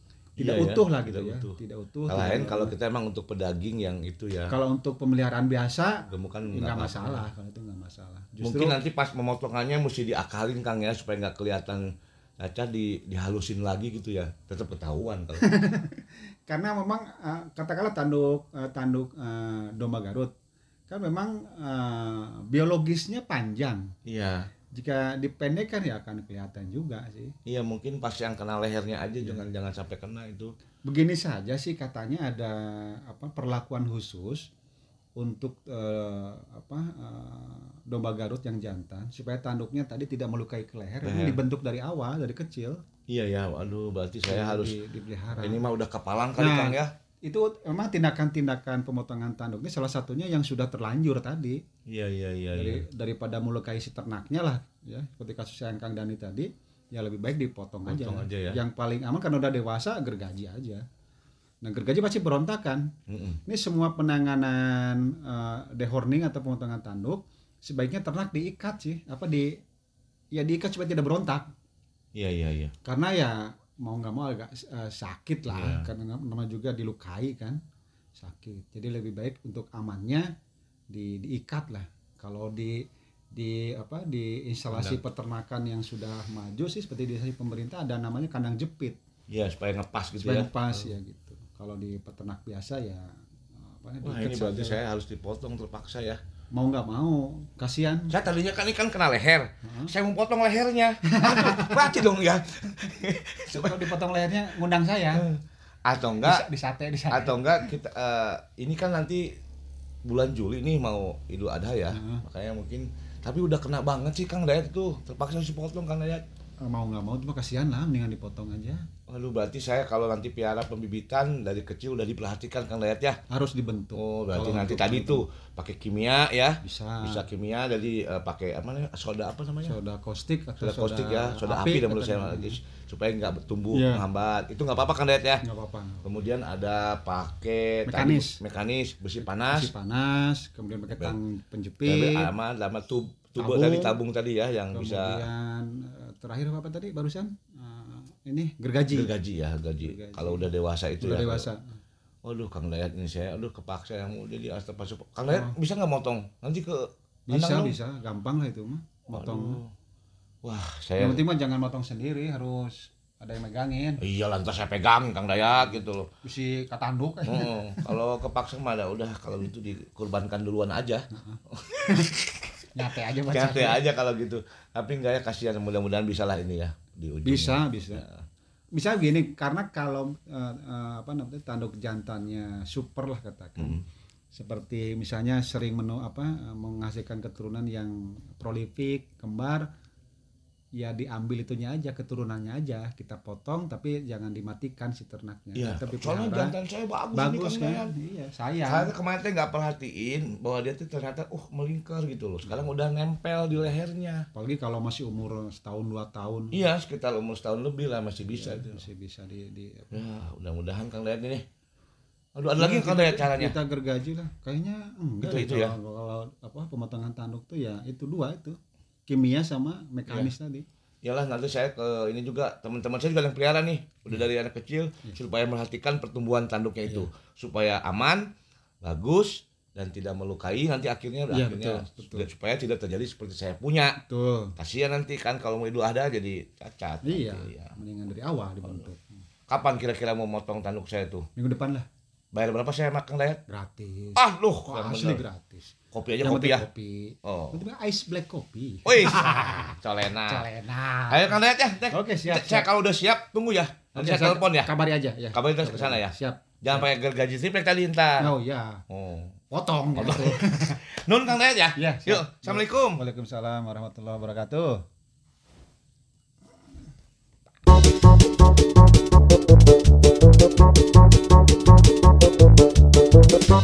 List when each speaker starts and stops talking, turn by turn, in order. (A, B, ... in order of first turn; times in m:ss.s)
0:00.4-0:02.8 A
0:00.4-0:01.6 B
0:02.1-0:04.5 B
0:04.5-0:08.8 A
0:06.1-0:07.2 B
0:08.4-0:11.8 B
0:12.4-0:15.4 B
0:15.4-0:20.3 A
0:20.9-0:23.9 A
0:24.1-0:24.5 B
0:24.7-0:27.3 A
0:27.5-0:30.5 B
0:29.2-0:29.5 A
0:30.9-0:34.5 A
0:35.2-0:42.8 A
0:41.0-0:41.4 B
0:43.1-0:44.8 B
0:44.3-0:45.6 A
0:45.3-0:46.9 B
0:46.4-0:51.6 A
0:51.9-0:52.8 B
0:52.5-1:00.8 A
0:57.9-0:58.6 B
1:01.6-1:02.9 A
1:03.1-1:03.4 B
1:03.5-1:09.6 A
1:10.3-1:11.5 A
1:12.2-1:12.7 B
1:12.8-1:17.6 A
1:15.5-1:15.9 B
1:18.2-1:20.3 A
1:20.9-1:29.0 A
1:24.7-1:25.0 B
1:29.3-1:31.0 B
1:30.2-1:34.8 A
1:34.0-1:36.2 B
1:36.5-1:38.2 A
1:38.1-1:43.9 B
1:39.6-1:39.9 A
1:41.1-1:42.0 A
1:43.5-1:45.2 A
1:45.2-1:46.4 B
1:46.2-1:47.7 A
1:47.1-1:49.3 B
1:50.0-1:56.2 B
1:51.9-1:52.2 A
1:56.6-1:58.9 A
1:59.1-2:03.2 B
2:03.3-2:05.2 A
2:04.0-2:09.8 B
2:06.6-2:07.2 A
2:09.6-2:12.6 A
2:10.6-2:15.4 B
2:13.7-2:14.0 A
2:15.4-2:16.1 A
2:16.0-2:19.7 B
2:17.9-2:18.4 A
2:19.2-2:22.3 A
2:21.8-2:25.2 B
2:23.4-2:24.0 A
2:24.7-2:29.1 A
2:28.9-2:31.5 B
2:29.8-2:31.8 A
2:32.2-2:37.8 B
2:35.3-2:35.6 A
2:37.3-2:39.6 A
2:39.1-2:39.7 B
2:40.4-2:41.2 B
2:41.0-2:44.0 A
2:44.0-2:46.1 B
2:46.2-2:47.9 A
2:47.2-2:52.5 B
2:51.1-2:52.1 A
2:52.7-2:53.8 A
2:53.2-2:58.2 B
2:57.2-2:58.0 A
2:58.7-3:03.8 A
3:03.6-3:03.8 B
3:04.3-3:09.7 A
3:10.8-3:16.6 A
3:15.6-3:17.9 B
3:17.1-3:18.9 A
3:18.6-3:24.2 B
3:22.4-3:22.7 A
3:24.3-3:26.6 A
3:26.5-3:28.9 B
3:28.3-3:30.0 A
3:29.9-3:31.4 B
3:32.4-3:33.6 B
3:32.6-3:40.7 A
3:35.2-3:35.8 B
3:41.0-3:48.2 B
3:48.8-3:54.0 B
3:51.3-3:52.3 A
3:54.0-3:54.6 A
3:54.6-3:57.7 B
3:57.0-3:59.1 A
3:59.5-4:01.2 B
4:01.4-4:01.9 A
4:02.3-4:03.4 B
4:03.5-4:12.7 A
4:04.2-4:05.2 B
4:05.9-4:06.7 B
4:07.2-4:07.6 B
4:08.8-4:10.4 B
4:11.1-4:14.7 B
4:14.0-4:16.9 A
4:15.3-4:18.3 B
4:18.2-4:18.8 A
4:18.9-4:19.4 B
4:19.5-4:20.8 A
4:20.0-4:23.0 B
4:21.8-4:24.8 A